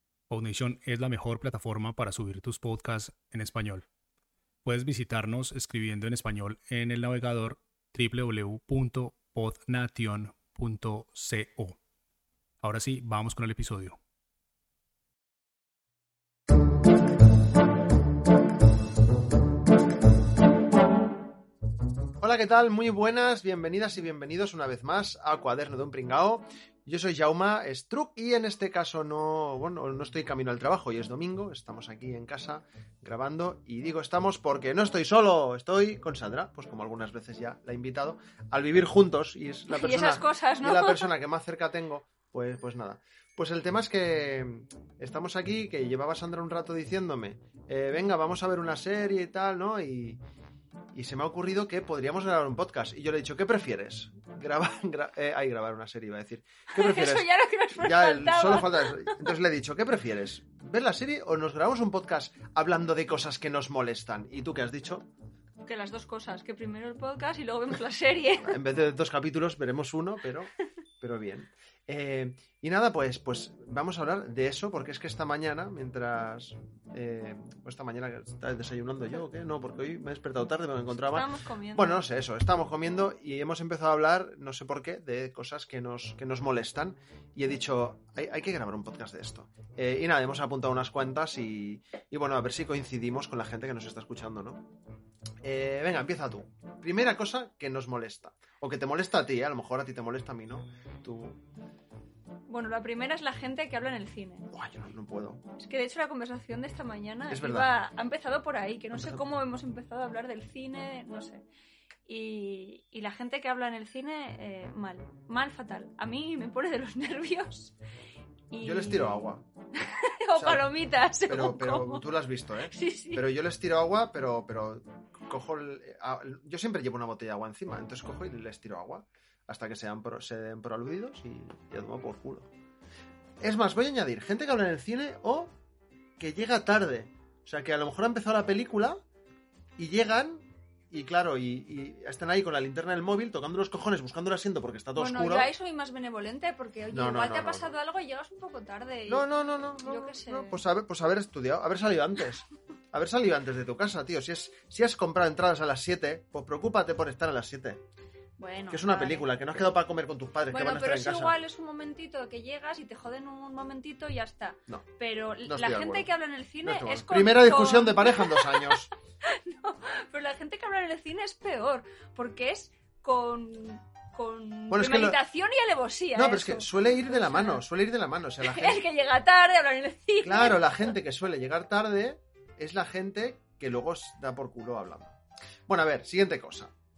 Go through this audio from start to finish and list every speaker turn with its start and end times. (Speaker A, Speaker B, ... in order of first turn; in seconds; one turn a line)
Speaker A: 0.3-3.9
Speaker A: 4.6-11.8
Speaker A: 12.6-14.0
Speaker B: 22.2-50.2
Speaker C: 39.7-41.1
Speaker B: 50.9-65.1
Speaker C: 56.7-59.3
Speaker C: 65.6-68.6
Speaker B: 68.4-94.7
Speaker C: 81.0-82.0
Speaker B: 95.4-101.4
Speaker C: 102.5-104.5
Speaker B: 104.5-105.4
Speaker C: 105.5-111.4
Speaker B: 107.3-107.7
Speaker B: 108.9-109.2
Speaker C: 112.0-117.7
Speaker C: 118.5-122.0
Speaker B: 118.6-119.4
Speaker B: 120.3-132.5
Speaker C: 122.7-123.3
Speaker B: 133.4-135.5
Speaker B: 136.2-139.0
Speaker B: 139.8-145.5
Speaker C: 144.9-150.6
Speaker B: 146.9-147.7
Speaker B: 149.1-157.8
Speaker C: 158.4-159.3
Speaker B: 158.7-161.4
Speaker C: 160.5-177.6
Speaker B: 165.4-166.1
Speaker B: 166.6-168.9
Speaker B: 174.7-175.2
Speaker B: 176.1-178.8
Speaker C: 178.4-180.9
Speaker B: 180.2-185.2
Speaker B: 185.7-186.7